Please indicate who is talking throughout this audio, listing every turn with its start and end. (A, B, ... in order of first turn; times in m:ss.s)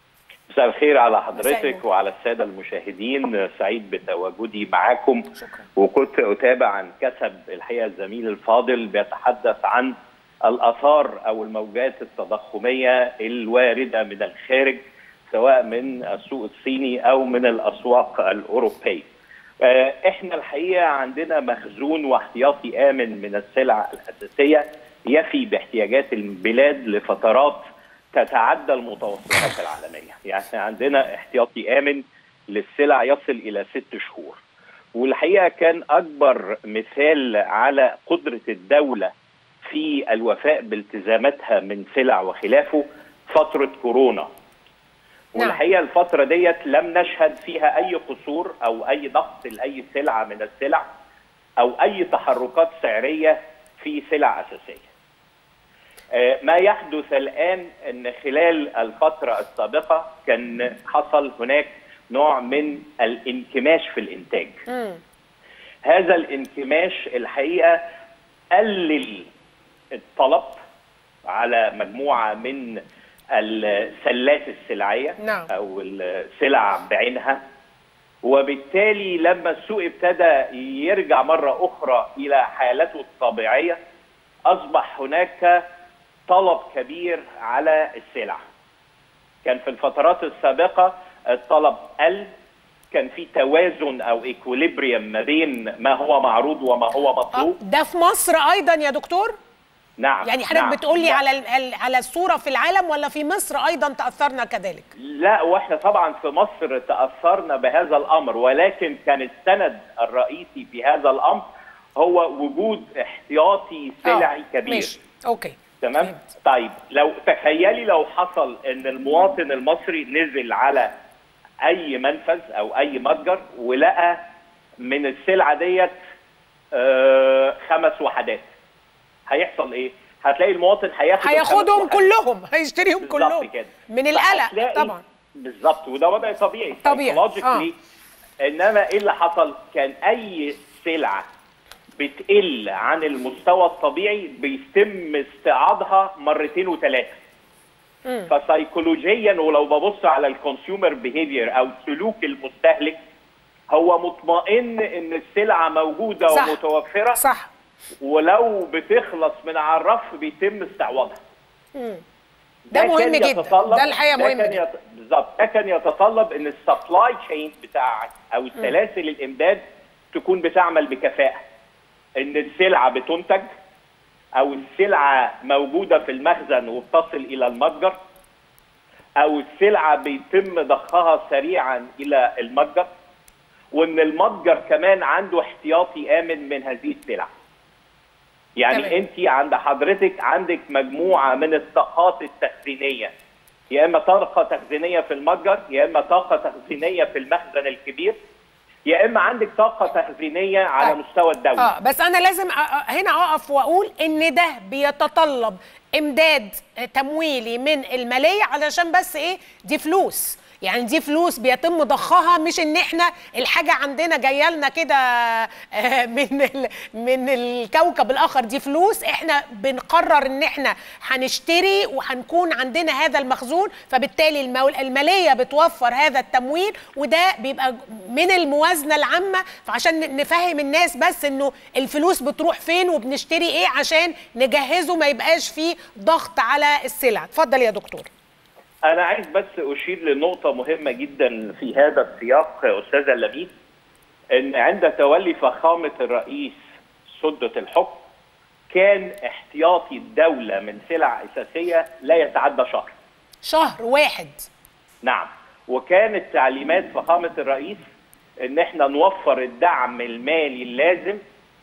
0:00.5-0:09.9 A
0:01.4-0:01.8 B
0:10.4-0:19.1 A
0:19.6-0:27.6 A
0:28.1-0:34.4 A
0:35.0-0:39.1 A
0:39.6-0:44.3 A
0:45.3-0:50.8 A
0:51.6-0:54.9 A
0:56.1-1:04.6 A
1:04.7-1:05.0 B
1:05.9-1:07.8 A
1:08.5-1:09.3 A
1:10.0-1:10.6 A
1:11.2-1:12.8 A
1:13.4-1:17.4 A
1:15.2-1:15.5 B
1:18.2-1:23.8 A
1:24.5-1:25.6 A
1:26.3-1:28.4 A
1:29.4-1:32.3 A
1:32.9-1:37.6 A
1:37.3-1:39.4 B
1:40.0-1:41.2 A
1:40.2-1:44.9 B
1:45.0-1:51.4 A
1:52.0-1:54.9 A
1:54.0-1:56.2 B
1:55.8-2:00.9 A
2:01.6-2:04.2 A
2:04.8-2:06.0 A
2:06.7-2:08.5 A
2:09.3-2:12.0 A
2:11.2-2:15.0 B
2:13.0-2:17.8 A
2:16.8-2:17.7 B
2:18.4-2:21.2 A
2:22.0-2:27.2 A
2:28.3-2:33.0 A
2:33.7-2:37.2 A
2:36.3-2:36.6 B
2:37.2-2:37.5 B
2:38.0-2:41.2 A
2:41.8-2:42.0 B
2:42.7-2:49.6 A
2:42.7-2:44.6 B
2:50.1-2:51.4 A
2:52.2-2:53.5 A
2:54.4-2:58.0 A
2:59.2-3:02.9 A
3:03.7-3:07.3 A
3:08.6-3:13.1 A
3:08.7-3:09.0 B
3:13.7-3:18.1 A
3:18.9-3:21.7 A
3:21.6-3:58.1 B
3:58.9-4:03.5 A
4:04.3-4:06.6 A
4:07.1-4:08.0 A
4:08.7-4:12.9 A
4:13.4-4:14.5 B
4:15.0-4:17.8 A
4:18.4-4:21.2 A